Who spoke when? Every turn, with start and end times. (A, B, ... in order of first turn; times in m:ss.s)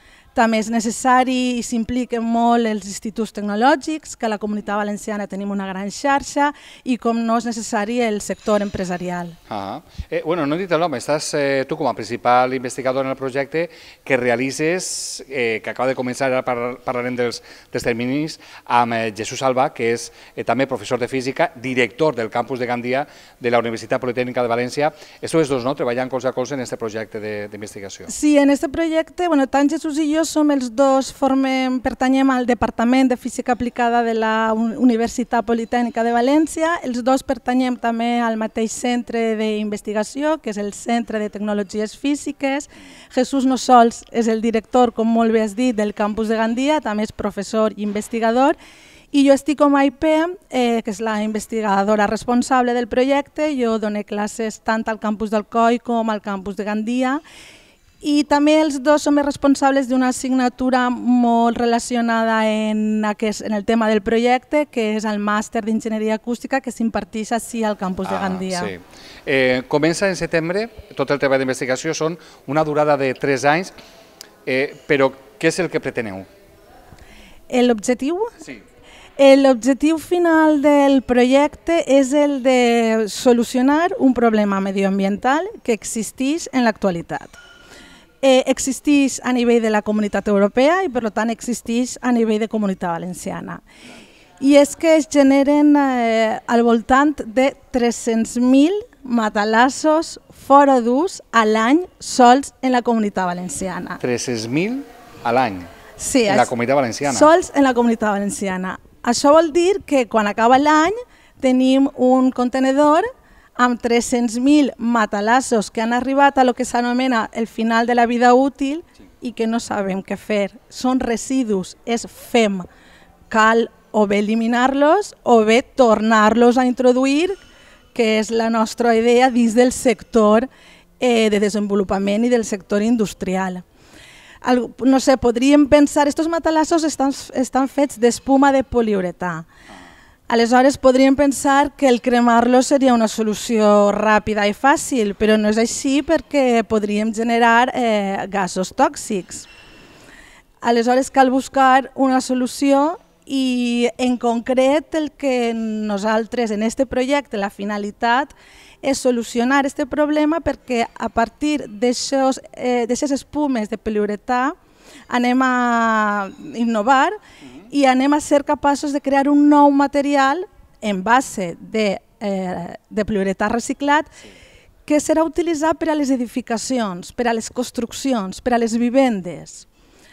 0:00.4-0:09.4 A
0:09.5-0:28.1 B
0:28.1-0:48.6 A
0:49.1-0:57.2 A
0:58.0-1:08.7 A
1:08.0-1:13.7 B
1:14.5-1:16.3 B
1:17.5-1:18.3 A
1:19.2-1:27.4 A
1:28.2-1:33.6 A
1:34.4-1:44.0 A
1:44.0-1:45.7 B
1:46.0-1:46.5 A
1:46.3-1:47.3 B
1:47.0-2:02.7 A
2:03.3-2:07.4 A
2:07.9-2:10.5 A
2:11.0-2:13.6 A
2:14.4-2:19.5 A
2:20.3-2:29.5 A
2:30.6-2:44.6 A
2:45.1-2:47.2 A
2:47.7-2:54.1 A
2:54.9-2:59.7 A